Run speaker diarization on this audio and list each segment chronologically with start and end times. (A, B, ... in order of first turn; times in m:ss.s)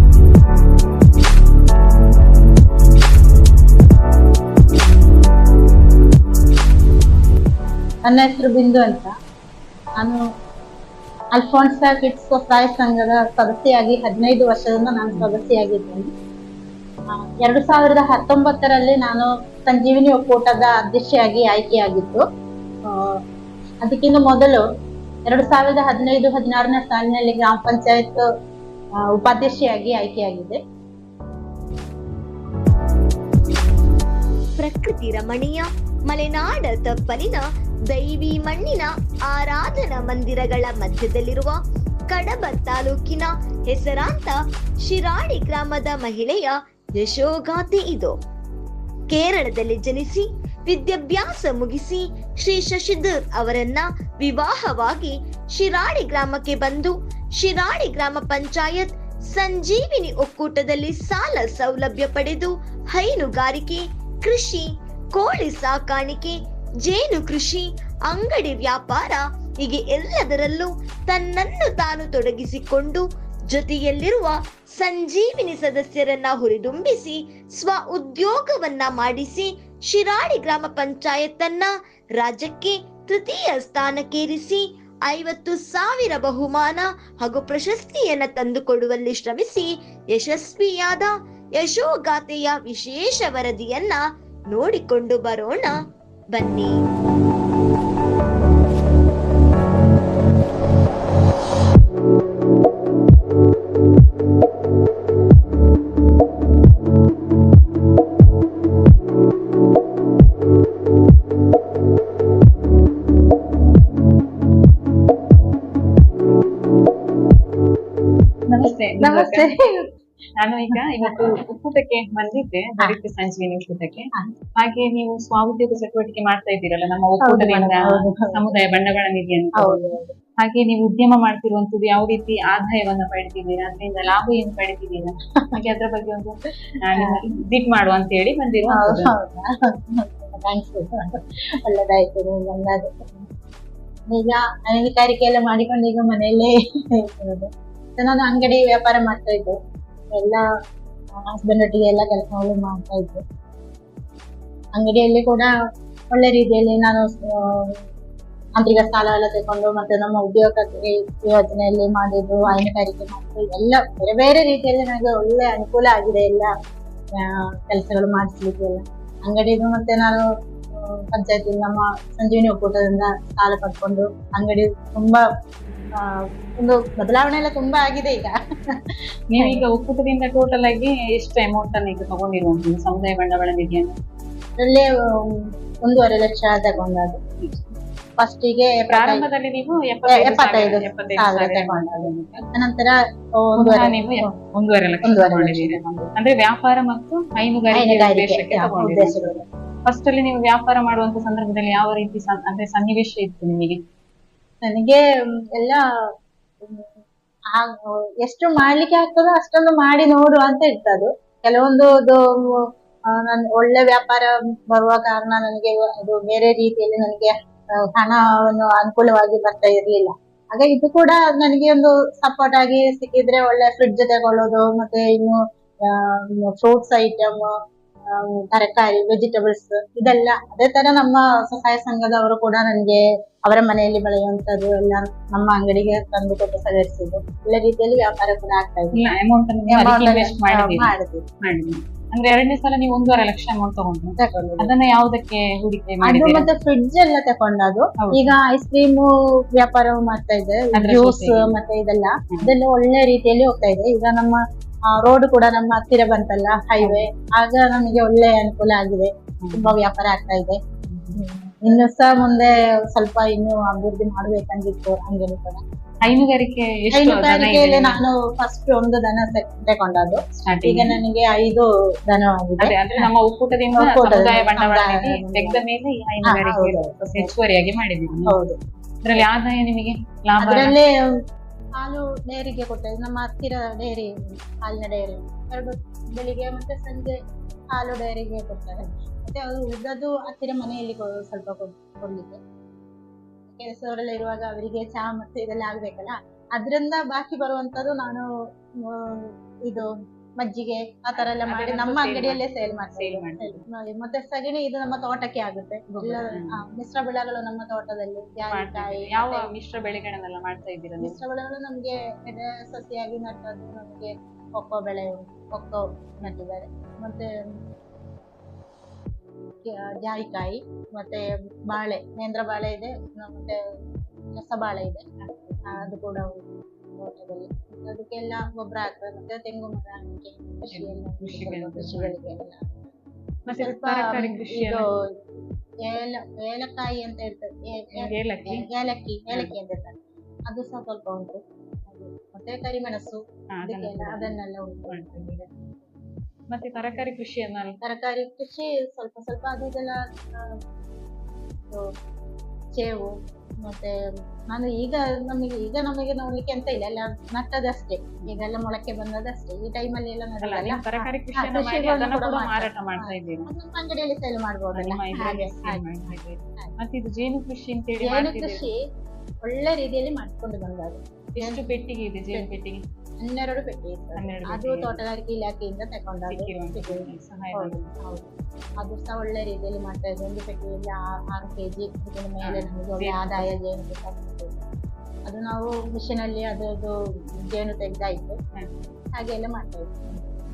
0:08.0-0:09.1 A
0:11.3-0:16.1 A
0:17.1-0:22.2 A
0:22.9-0:23.1 A
0:23.8-0:24.6 A
0:25.3-0:28.2 A
0:29.1-0:30.6 A
0:34.6-0:48.1 B
0:49.1-1:35.8 B
1:36.3-1:36.8 B
1:58.5-1:59.5 C
1:59.0-1:59.9 A
2:00.4-2:09.8 C
2:07.2-2:08.4 A
2:09.6-2:10.1 A
2:10.4-2:19.1 C
2:18.7-2:23.2 A
2:24.1-2:29.6 A
2:30.2-2:30.4 A
2:31.2-2:33.2 A
2:34.7-2:35.5 A
2:36.1-2:37.8 A
2:38.6-2:46.5 A
2:47.2-2:50.2 A
2:51.1-2:55.2 A
2:56.6-2:58.4 A
2:59.3-3:03.9 C
2:59.4-2:59.6 A
3:04.6-3:07.2 A
3:08.2-3:09.2 A
3:08.9-3:12.4 C
3:10.1-3:14.2 A
3:13.6-3:19.3 C
3:15.0-3:15.8 A
3:17.7-3:19.4 A
3:19.8-3:23.8 C
3:24.6-3:25.0 A
3:26.6-3:26.9 A
3:28.2-3:32.2 A
3:33.1-3:37.3 A
3:37.9-3:45.4 A
3:45.9-3:47.5 A
3:48.1-3:59.0 A
3:58.9-4:06.5 C
3:59.7-4:01.2 A
4:04.2-4:04.7 A
4:06.0-4:14.4 A
4:08.0-4:08.4 C
4:10.7-4:11.5 C
4:14.9-4:20.6 A
4:19.4-4:19.8 C
4:20.9-4:21.2 C
4:21.2-4:26.1 A
4:26.0-4:28.0 C
4:26.9-4:33.0 A
4:30.4-4:31.0 C
4:32.6-4:38.4 C
4:33.8-4:35.6 A
4:36.2-4:37.3 A
4:38.2-4:38.6 A
4:39.0-4:40.8 C
4:40.4-4:40.9 A
4:41.8-4:47.1 A
4:47.7-4:52.4 A
4:53.5-4:58.2 A
4:58.8-4:59.9 A
5:00.4-5:09.5 A
5:01.2-5:03.7 C
5:05.9-5:06.6 C
5:08.5-5:11.2 C
5:11.0-5:17.3 A
5:19.6-5:23.6 A
5:24.4-5:25.0 A
5:25.2-5:25.9 C
5:25.7-5:32.7 A
5:30.7-5:32.2 C
5:33.5-5:34.9 C
5:33.5-5:35.0 A
5:35.8-5:40.0 A
5:38.0-5:38.7 C
5:40.5-5:45.5 A
5:43.6-5:45.4 C
5:46.5-5:47.8 C
5:47.8-5:50.6 A
5:52.8-5:53.1 A
5:53.6-5:53.9 A
5:54.5-6:05.9 A
6:00.4-6:03.5 C
6:04.7-6:08.7 C
6:08.0-6:08.8 A
6:09.4-6:11.7 A
6:11.4-6:12.8 C
6:13.2-6:24.5 A
6:14.2-6:15.0 C
6:16.3-6:17.9 C
6:22.4-6:23.5 C
6:25.3-6:26.9 A
6:27.5-6:28.4 A
6:29.2-6:30.2 A